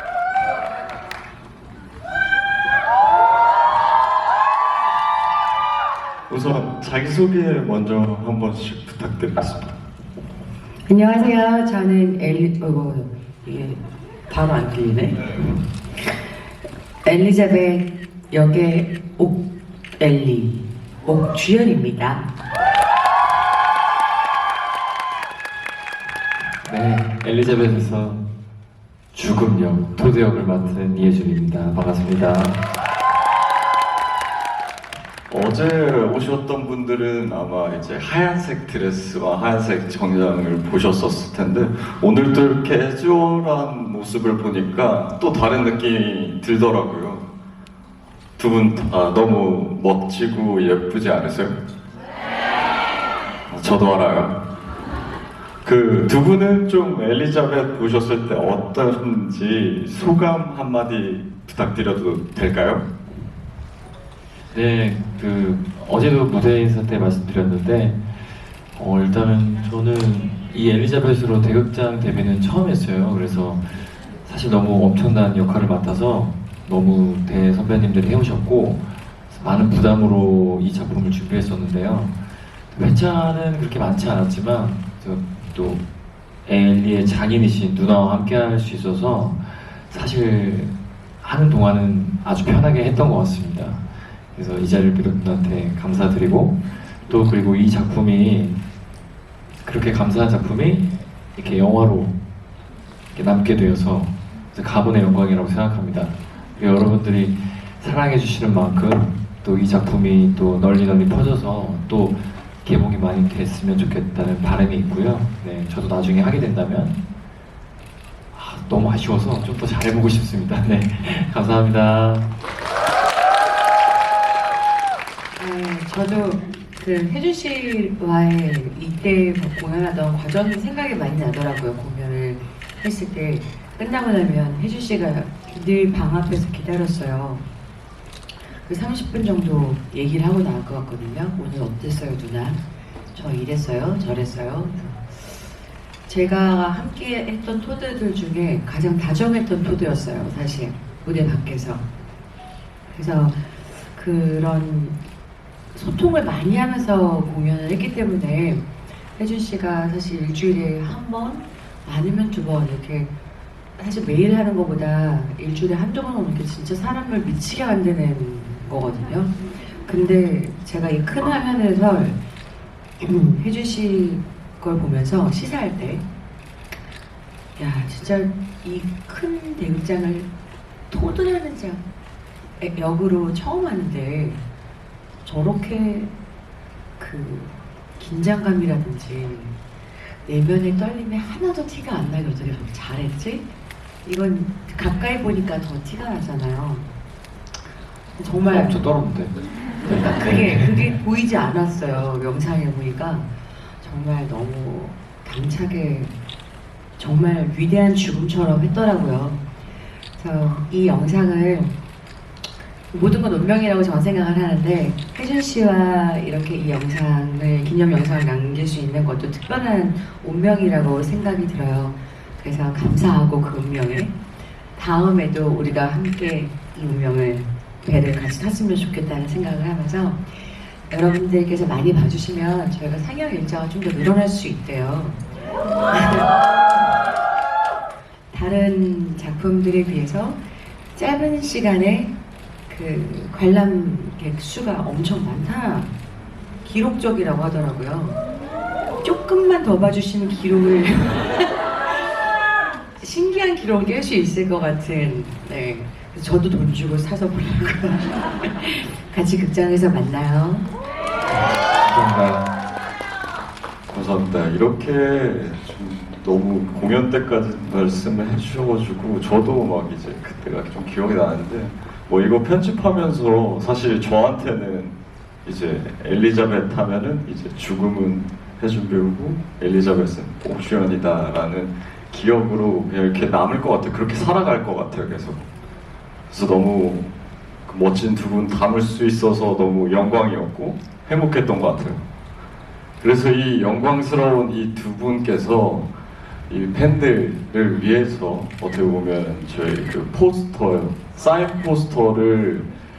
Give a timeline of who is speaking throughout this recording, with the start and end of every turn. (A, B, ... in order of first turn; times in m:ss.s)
0:06.3-0:09.7 A
0:10.9-0:15.6 B
0:17.0-0:22.3 B
0:26.6-0:28.2 C
0:29.2-0:32.6 C
0:35.3-0:47.3 A
0:48.4-0:51.5 A
0:53.5-0:54.4 A
0:55.6-1:02.8 A
1:04.5-1:07.9 C
1:08.8-1:13.6 C
1:14.4-1:18.8 C
1:19.3-1:22.1 C
1:22.7-1:25.8 C
1:26.5-1:30.7 C
1:31.3-1:33.8 C
1:34.4-1:36.6 C
1:37.1-1:38.6 C
1:39.7-1:40.8 C
1:41.4-1:42.1 C
1:43.2-1:52.1 C
1:52.7-1:57.0 C
1:58.4-2:02.3 C
2:05.4-2:17.4 B
2:18.7-2:22.6 B
2:23.1-2:25.3 B
2:26.1-2:31.8 B
2:32.9-2:35.0 B
2:35.7-2:43.1 B
2:43.8-2:52.2 B
2:53.0-2:56.0 B
2:57.6-3:00.3 B
3:00.9-3:01.8 B
3:02.6-3:04.4 B
3:05.2-3:06.1 B
3:07.0-3:09.6 B
3:10.2-3:13.4 B
3:14.0-3:16.9 B
3:18.2-3:18.8 B
3:18.5-3:19.3 C
3:19.8-3:26.1 B
3:19.9-3:20.7 C
3:27.0-3:29.4 B
3:30.2-3:31.7 B
3:32.9-3:44.1 B
3:44.8-3:55.2 B
3:55.9-3:56.3 B
3:58.3-4:00.4 B
4:01.0-4:02.1 B
4:02.7-4:05.9 B
4:06.6-4:08.2 B
4:09.0-4:11.6 B
4:13.0-4:20.7 B
4:21.8-4:22.5 C
4:23.9-4:45.5 A
4:46.3-4:47.1 A
4:47.7-4:52.0 A
4:53.0-4:55.9 A
4:56.5-5:02.7 A